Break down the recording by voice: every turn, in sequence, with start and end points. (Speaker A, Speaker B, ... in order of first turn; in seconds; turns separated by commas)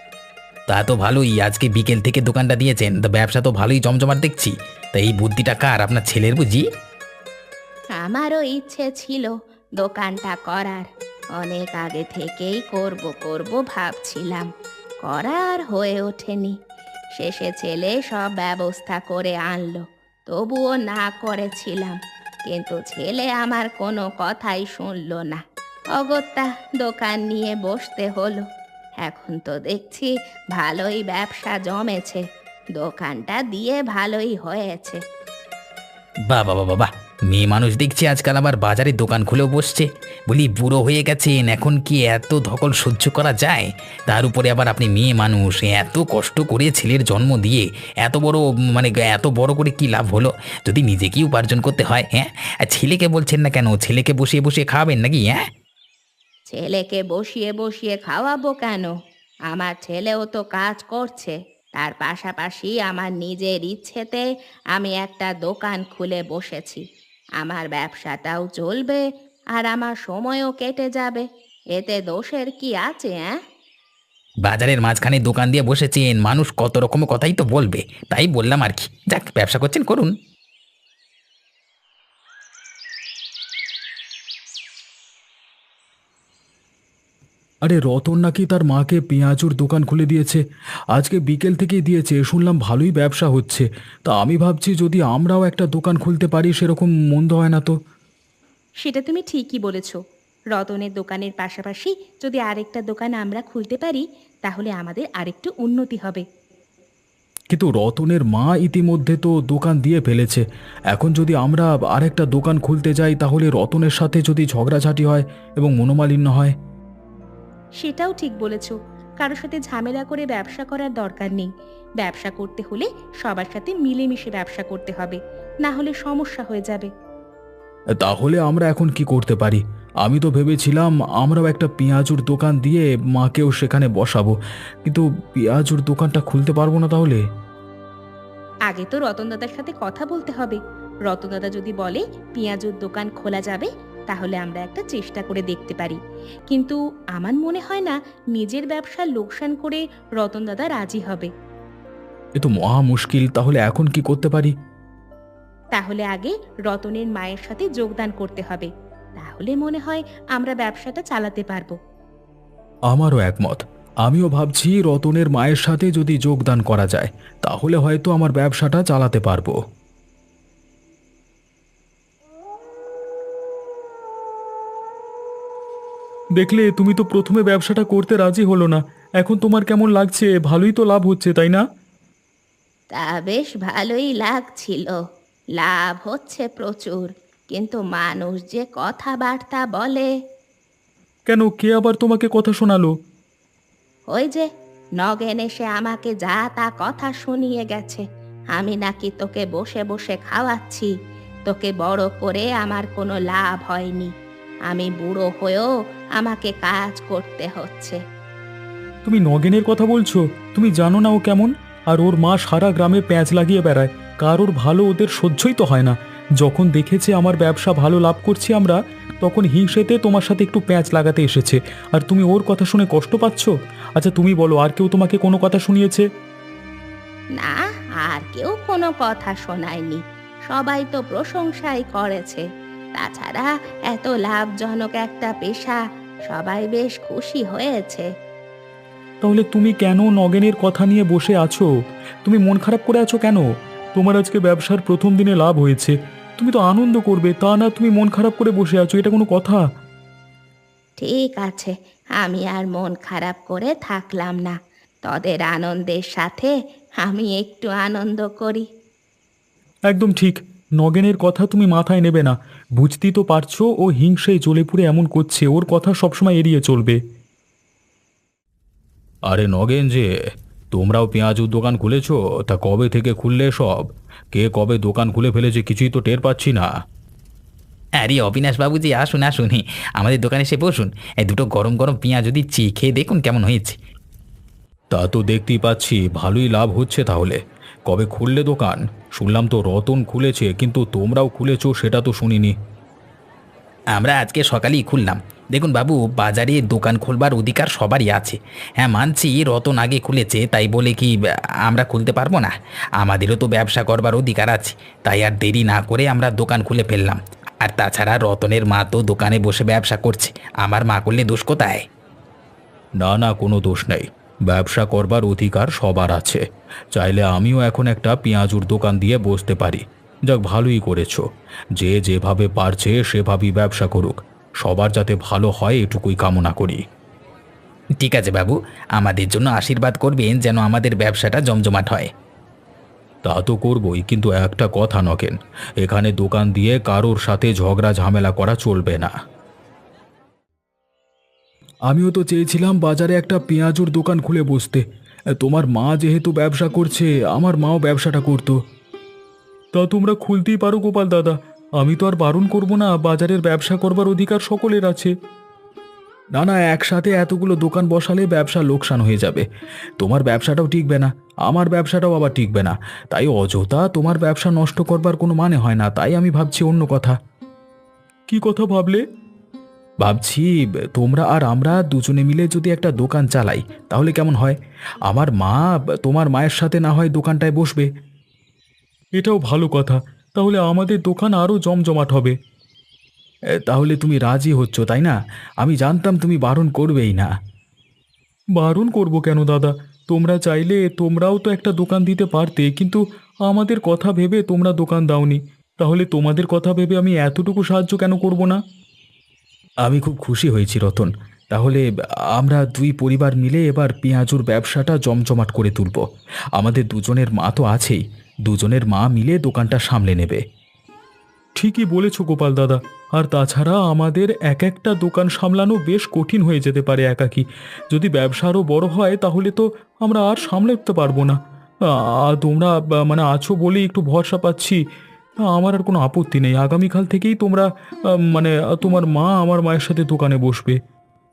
Speaker A: 0.7-6.7, Speaker B: 8.0-10.9, Speaker B: 11.4-14.5, Speaker B: 15.1-16.6, Speaker B: 17.2-22.0, Speaker B: 22.5-25.4, Speaker B: 26.0-28.4, Speaker B: 29.0-32.2, Speaker B: 32.8-35.0, Speaker A: 36.3-55.4, Speaker B: 56.5-58.9, Speaker B: 59.5-66.8, Speaker B: 67.4-69.0, Speaker B: 69.5-73.3, Speaker A: 74.5-80.1, Speaker C: 87.6-90.4, Speaker C: 90.9-97.8, Speaker B: 98.8-100.0, Speaker B: 100.5-106.2, Speaker C: 107.5-116.5, Speaker B: 117.8-121.5, Speaker B: 122.0-126.9, Speaker C: 128.0-137.2, Speaker B: 138.7-146.0, Speaker B: 146.5-151.3, Speaker C: 152.4-154.5, Speaker B: 155.8-161.8, Speaker C: 162.9-169.6, Speaker C: 176.4-181.6, Speaker B: 182.9-185.0, Speaker B: 185.6-190.1, Speaker C: 191.3-192.9, Speaker B: 194.1-194.5, Speaker B: 195.0-198.0, Speaker B: 198.6-200.9, Speaker B: 201.5-204.1, Speaker B: 204.7-208.0, Speaker C: 209.1-226.1, Speaker B: 227.4-232.4, Speaker B: 233.0-238.1, Speaker C: 239.2-241.7, Speaker C: 242.2-249.6, Speaker B: 251.0-258.7, Speaker C: 259.9-267.0, Speaker C: 269.3-270.1, Speaker C: 270.7-276.7, Speaker A: 278.0-283.8, Speaker C: 284.9-292.6, Speaker A: 293.9-301.1, Speaker A: 301.6-311.8, Speaker C: 313.0-316.4, Speaker C: 316.9-321.2, Speaker C: 321.8-326.8, Speaker A: 328.0-332.1, Speaker C: 333.2-339.1, Speaker C: 341.9-344.8, Speaker C: 345.4-348.6, Speaker C: 349.8-355.1, Speaker C: 356.4-359.5, Speaker C: 360.0-367.2, Speaker C: 368.3-369.0, Speaker C: 370.0-374.6, Speaker C: 375.1-377.9, Speaker C: 379.2-382.4, Speaker C: 383.7-387.3, Speaker C: 388.6-398.6, Speaker C: 399.8-401.8, Speaker C: 402.4-406.0, Speaker C: 406.6-410.4, Speaker C: 411.6-421.4, Speaker C: 421.9-424.8, Speaker C: 425.5-430.8